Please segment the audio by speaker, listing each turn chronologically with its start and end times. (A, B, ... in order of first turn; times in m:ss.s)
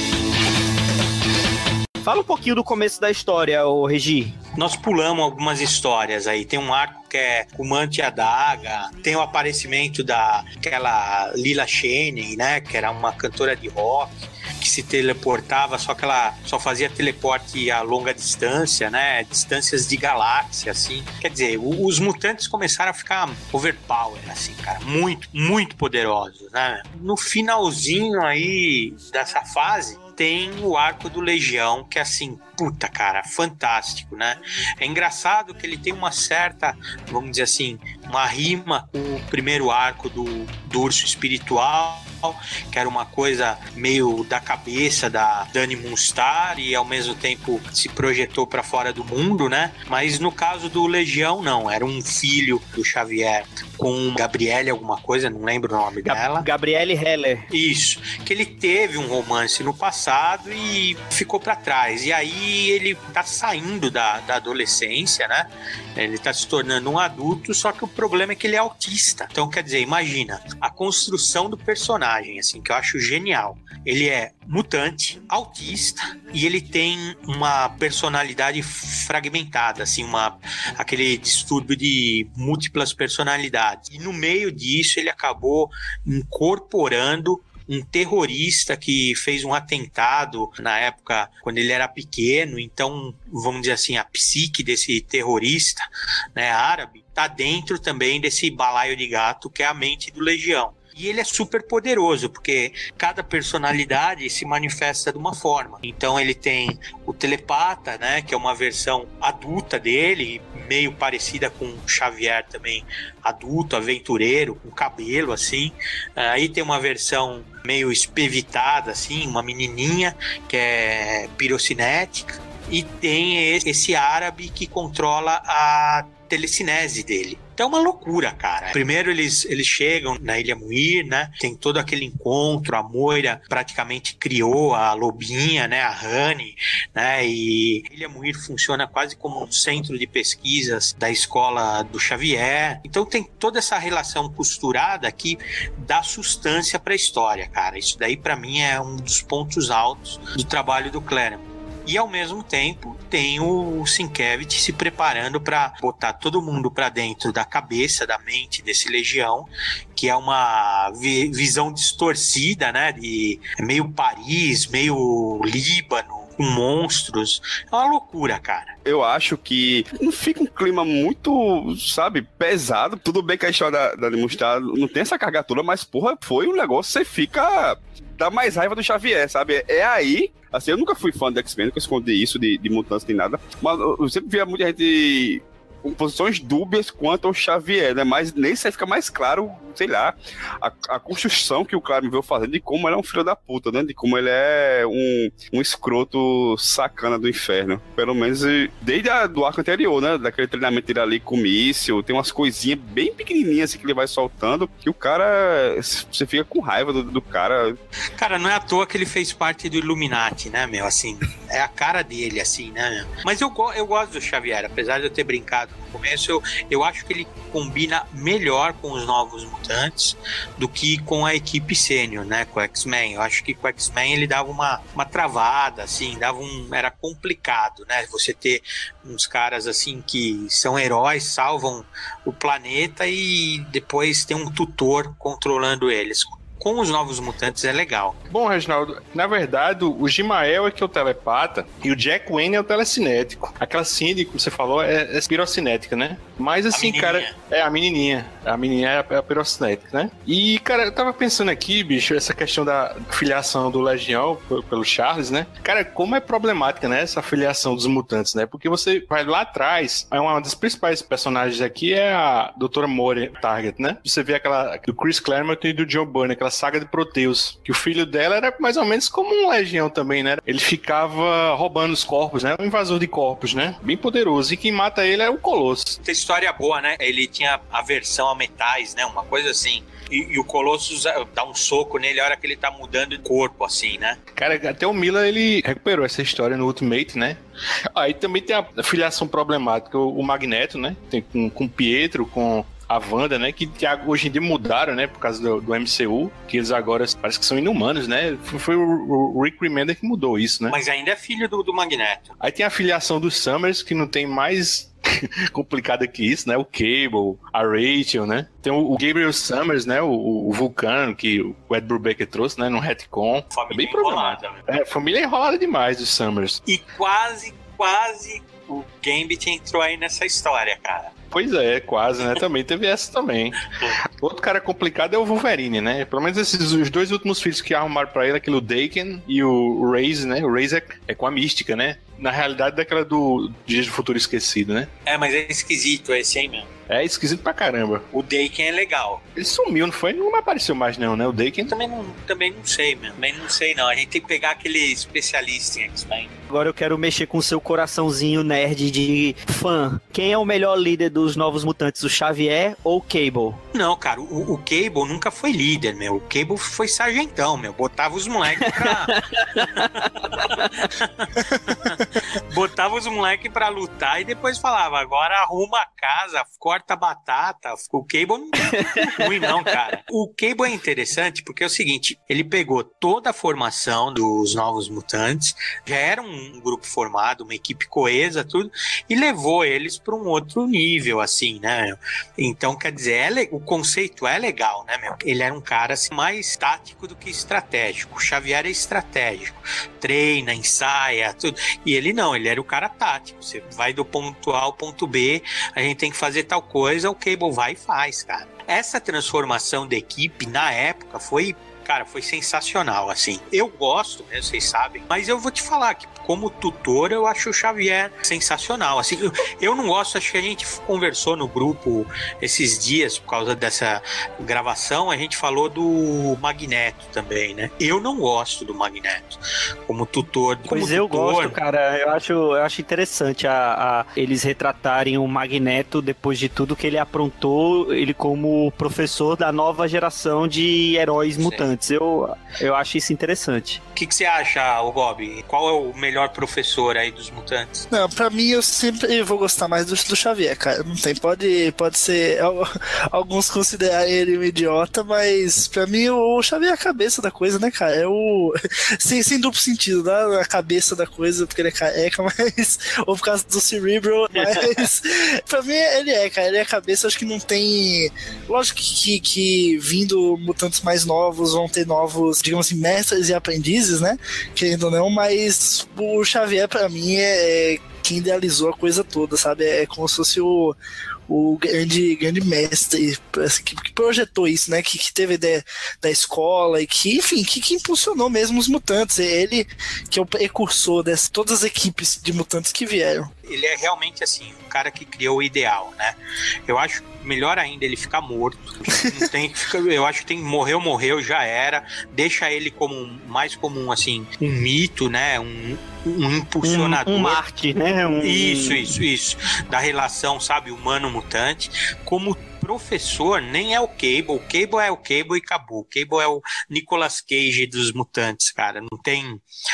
0:02.0-0:04.4 A
0:04.6-0:56.5 B
0:56.0-0:57.5 A
0:57.5-2:48.7 B
2:48.8-3:27.8 C
3:28.2-3:58.2 B
3:58.3-4:36.0 D
4:06.7-4:07.4 B
4:36.0-4:44.2 B
4:44.3-4:47.4 D
4:47.9-5:00.7 D
5:00.7-5:02.3 B
5:02.4-5:16.6 D
5:13.5-5:14.6 B
5:16.7-5:21.1 B
5:21.3-5:23.6 D
5:24.2-5:34.9 D
5:35.0-5:36.7 B
5:36.9-5:38.0 D
5:38.1-5:39.2 B
5:39.4-5:41.7 D
5:41.7-5:46.3 B
5:46.5-5:53.6 A
5:53.7-5:59.2 B
5:58.7-6:00.6 A
6:00.1-7:01.6 B
6:08.7-6:09.5 A
7:00.7-7:13.8 A
7:11.4-7:11.6 B
7:13.9-7:17.9 B
7:17.9-7:50.8 E
7:51.3-8:03.3 E
8:03.4-8:17.4 B
8:16.6-8:18.8 A
8:18.2-8:29.4 B